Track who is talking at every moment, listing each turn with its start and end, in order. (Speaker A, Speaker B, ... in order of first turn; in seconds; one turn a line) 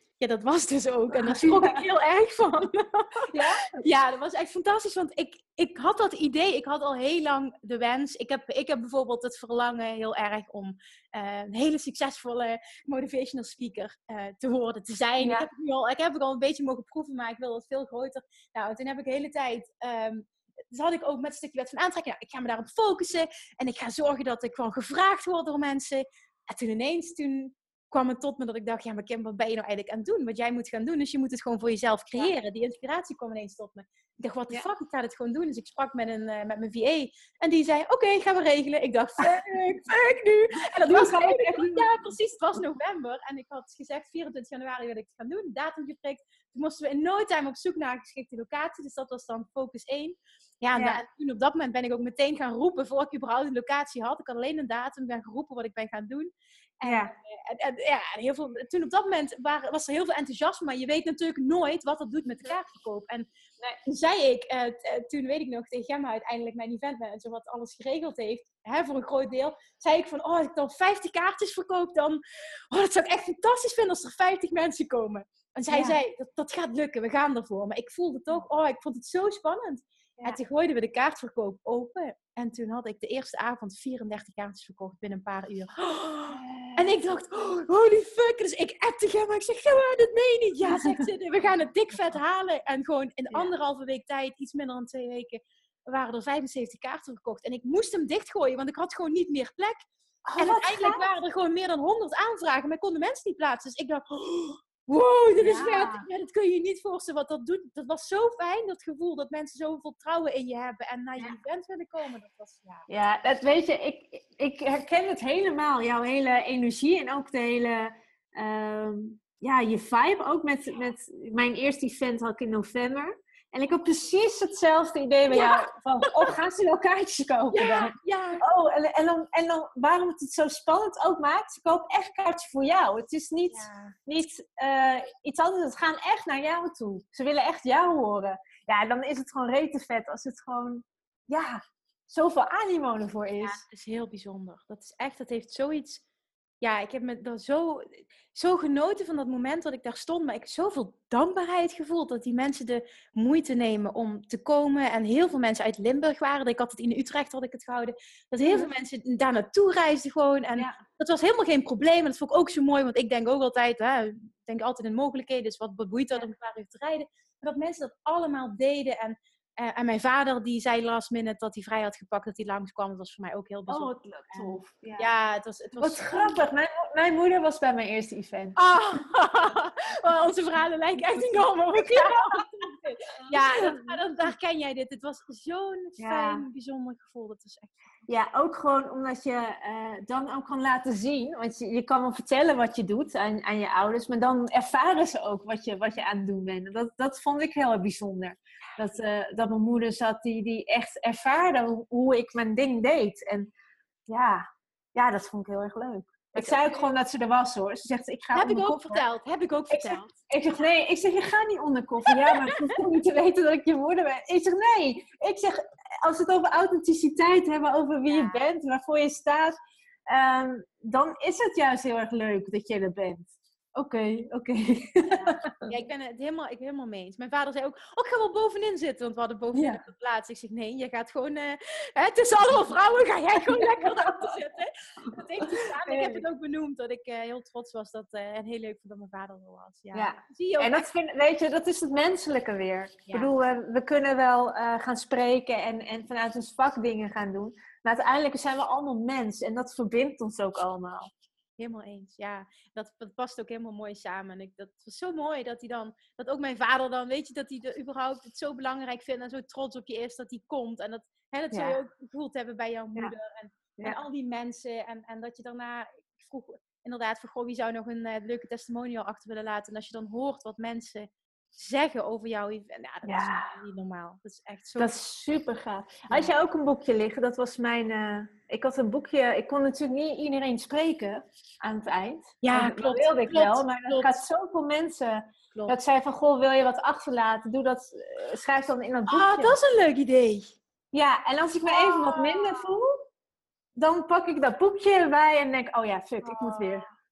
Speaker A: 0.2-72.2
Speaker B: 1.1-1.8
Speaker B: 3.2-3.8
Speaker B: 15.2-15.5
Speaker B: 40.7-42.0
Speaker B: 50.7-51.0
Speaker B: 56.8-57.1
Speaker A: 72.7-99.8
Speaker B: 75.7-76.0
Speaker B: 86.3-86.9
Speaker B: 90.7-91.0
Speaker B: 100.2-101.1
Speaker A: 100.4-112.9
Speaker B: 105.4-106.0
Speaker B: 112.9-143.6
Speaker A: 125.3-126.3
Speaker A: 127.5-128.4
Speaker A: 133.5-134.0
Speaker A: 143.4-146.0
Speaker A: 146.6-176.4
Speaker B: 158.4-158.7
Speaker B: 160.6-160.8
Speaker B: 173.7-175.1
Speaker B: 175.8-178.6
Speaker A: 178.6-187.7
Speaker B: 181.7-182.5
Speaker B: 183.0-184.0
Speaker B: 186.0-186.4
Speaker B: 188.1-203.5
Speaker B: 204.1-209.0
Speaker A: 206.3-206.9
Speaker A: 208.3-210.1
Speaker B: 209.7-219.6
Speaker A: 212.1-212.8
Speaker A: 218.1-218.4
Speaker B: 220.1-225.7
Speaker A: 225.1-240.9
Speaker B: 229.5-229.8
Speaker B: 233.5-234.2
Speaker B: 235.0-236.2
Speaker B: 239.9-251.1
Speaker A: 251.6-274.9
Speaker B: 261.5-261.8
Speaker B: 263.8-264.0
Speaker B: 273.0-273.6
Speaker B: 274.8-289.6
Speaker A: 282.4-284.1
Speaker A: 289.1-290.5
Speaker B: 290.9-293.0
Speaker A: 291.7-292.7
Speaker B: 293.8-296.9
Speaker A: 296.2-296.8